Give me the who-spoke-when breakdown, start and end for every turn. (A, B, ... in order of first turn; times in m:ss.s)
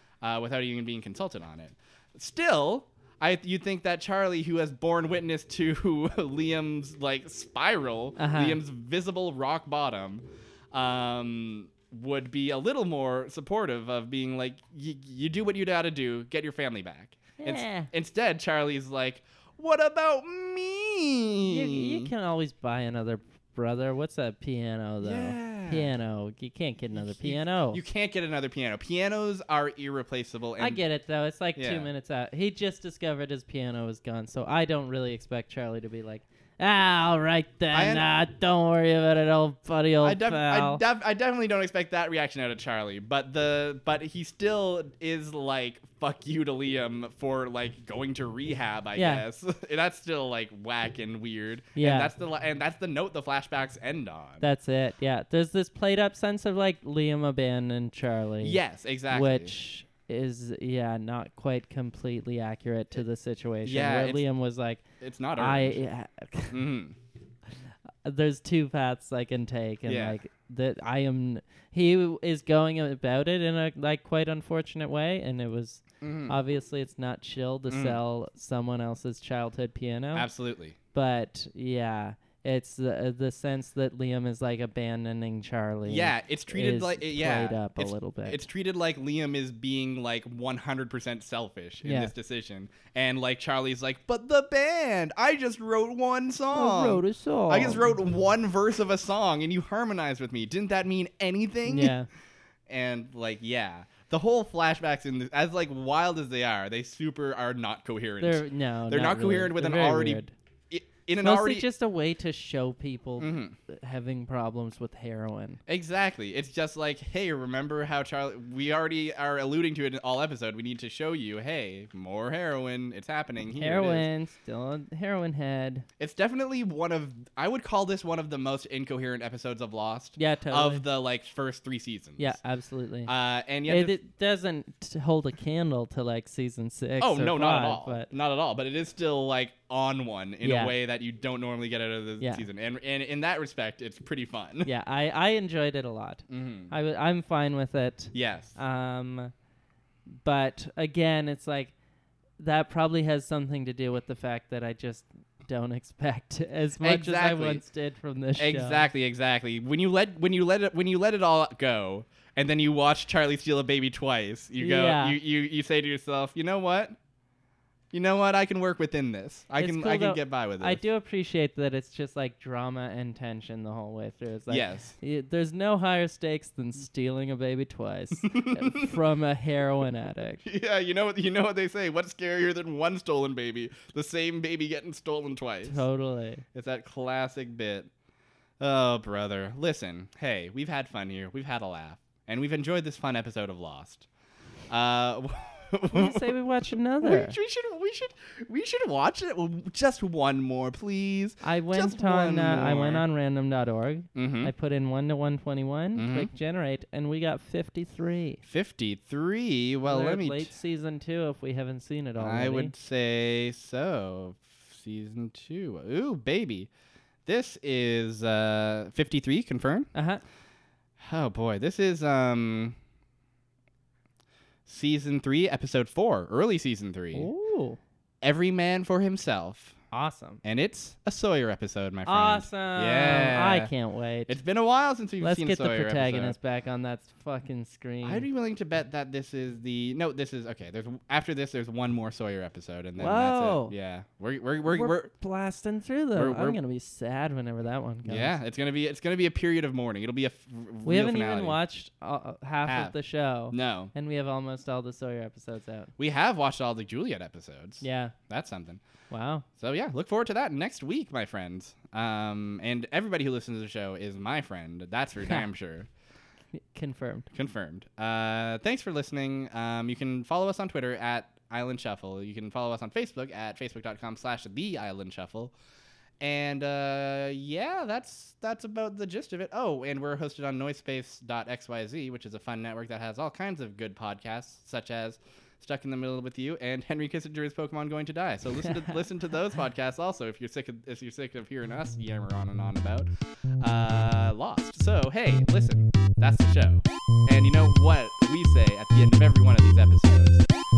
0:00.2-0:22.1 A
0:08.2-0:08.6 B
0:17.4-0:17.9 B
0:21.4-0:27.8 B
0:25.0-0:25.9 A
0:27.0-0:30.8 A
0:30.6-0:40.8 B
0:31.6-0:31.9 A
0:37.7-0:38.1 A
0:40.0-0:54.4 A
0:49.0-0:49.2 B
0:51.8-0:52.1 B
0:54.4-1:04.8 B
0:58.4-0:59.5 A
1:03.6-1:04.2 A
1:05.0-1:05.8 A
1:05.4-1:06.6 B
1:06.5-1:07.0 A
1:08.0-1:20.3 B
1:09.9-1:10.2 A
1:16.0-1:16.4 A
1:17.7-1:18.0 A
1:20.1-1:20.8 A
1:20.9-1:28.4 B
1:25.9-1:42.0 A
1:31.8-1:32.1 B
1:36.5-1:38.0 B
1:41.6-1:42.1 B
1:42.7-1:51.7 A
1:48.2-1:50.3 B
1:51.2-1:55.6 B
1:53.2-1:53.6 A
1:55.7-2:04.1 A
2:03.4-2:05.9 B
2:06.0-2:12.4 A
2:10.2-2:10.8 B
2:12.2-2:13.1 B
2:13.1-2:14.0 A
2:13.7-2:18.1 B
2:17.0-2:24.7 A
2:20.4-2:20.7 B
2:22.2-2:22.5 B
2:24.6-2:29.3 B
2:26.3-2:26.7 A
2:28.1-2:28.6 A
2:30.1-2:31.7 B
2:32.4-2:38.9 B
2:36.8-2:37.6 A
2:38.4-2:47.0 A
2:44.6-2:45.2 B
2:47.9-2:50.8 A
2:49.6-3:00.4 B
2:54.5-2:55.0 A
2:58.2-2:59.0 A
3:00.4-3:05.8 A
3:05.6-3:06.4 B
3:06.5-3:07.9 A
3:08.6-3:14.1 A
3:14.7-3:16.4 A
3:15.9-3:17.4 B
3:17.0-3:23.0 A
3:21.4-3:28.4 B
3:24.2-3:24.5 A
3:26.0-3:26.3 A
3:28.4-3:30.5 A
3:29.9-3:32.7 B
3:32.2-3:36.7 A
3:37.3-3:39.9 A
3:39.9-3:40.2 B
3:41.0-3:42.8 A
3:44.7-3:47.3 A
3:47.1-3:47.8 B
3:48.2-3:49.8 A
3:49.9-3:50.4 B
3:50.4-3:53.7 A
3:52.1-3:54.4 B
3:54.3-3:56.4 A
3:55.2-3:58.3 B
3:58.0-4:05.1 A
4:03.0-4:03.7 B
4:04.7-4:08.4 B
4:06.2-4:06.6 A
4:08.1-4:11.6 A
4:10.8-4:15.9 B
4:12.6-4:12.9 A
4:13.5-4:13.9 A
4:16.0-4:18.8 A
4:17.8-4:18.2 B
4:19.1-4:19.4 B
4:19.6-4:25.9 A
4:25.2-4:25.5 B
4:26.6-4:27.3 B
4:27.3-4:35.5 A
4:36.2-5:00.5 A
4:48.6-4:49.0 B